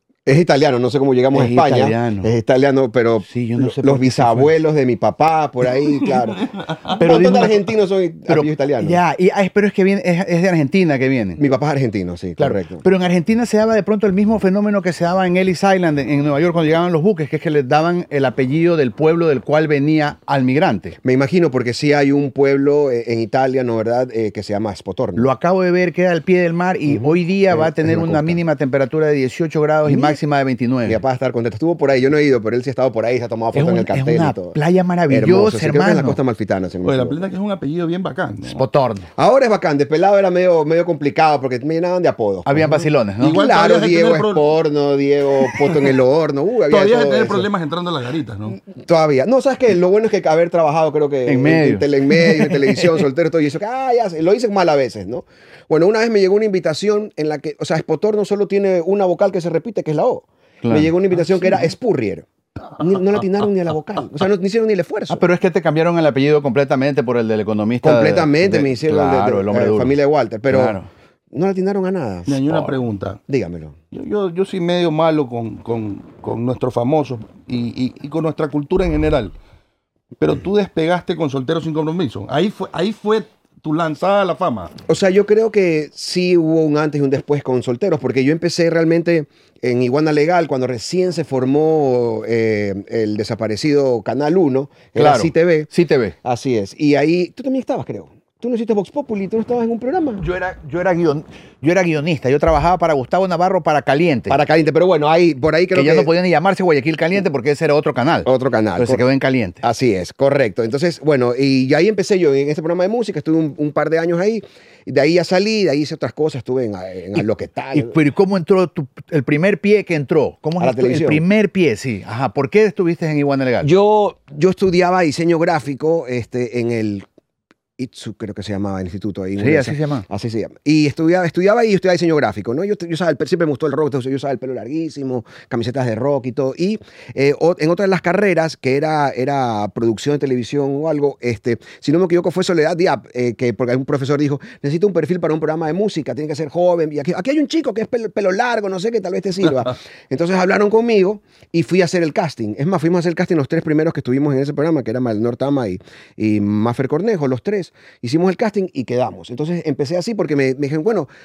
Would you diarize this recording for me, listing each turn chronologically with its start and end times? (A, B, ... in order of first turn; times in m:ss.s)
0:00.2-0:09.0 A
0:01.3-0:02.3 B
0:03.2-0:04.5 B
0:05.8-0:07.0 C
0:07.0-0:07.6 B
0:08.3-0:11.4 B
0:11.4-0:12.8 A
0:12.4-0:21.0 B
0:21.0-0:25.3 A
0:25.2-0:31.0 B
0:26.9-0:28.4 A
0:29.8-0:30.2 A
0:30.8-0:34.6 A
0:33.5-0:36.2 B
0:35.1-0:37.2 A
0:36.8-0:38.6 C
0:38.5-0:39.1 B
0:39.2-0:47.5 A
0:42.4-0:43.4 B
0:43.2-0:44.5 C
0:45.4-0:45.9 C
0:46.7-0:48.6 C
0:48.6-1:05.2 A
0:51.3-0:53.0 B
1:00.6-1:00.9 B
1:05.1-1:09.9 B
1:07.8-1:10.8 A
1:10.5-1:10.9 B
1:11.3-1:12.8 A
1:12.2-1:13.2 C
1:13.3-1:13.8 A
1:13.9-1:19.3 C
1:20.2-1:24.7 C
1:24.9-1:35.7 A
1:35.0-1:36.1 B
1:36.2-1:40.2 A
1:40.2-1:44.4 B
1:44.3-1:46.1 A
1:45.7-1:49.6 B
1:48.2-1:49.0 A
1:49.6-1:58.0 A
1:57.7-2:03.7 B
2:00.6-2:01.2 A
2:03.6-2:07.0 A
2:07.8-2:41.1 A
2:09.4-2:10.0 B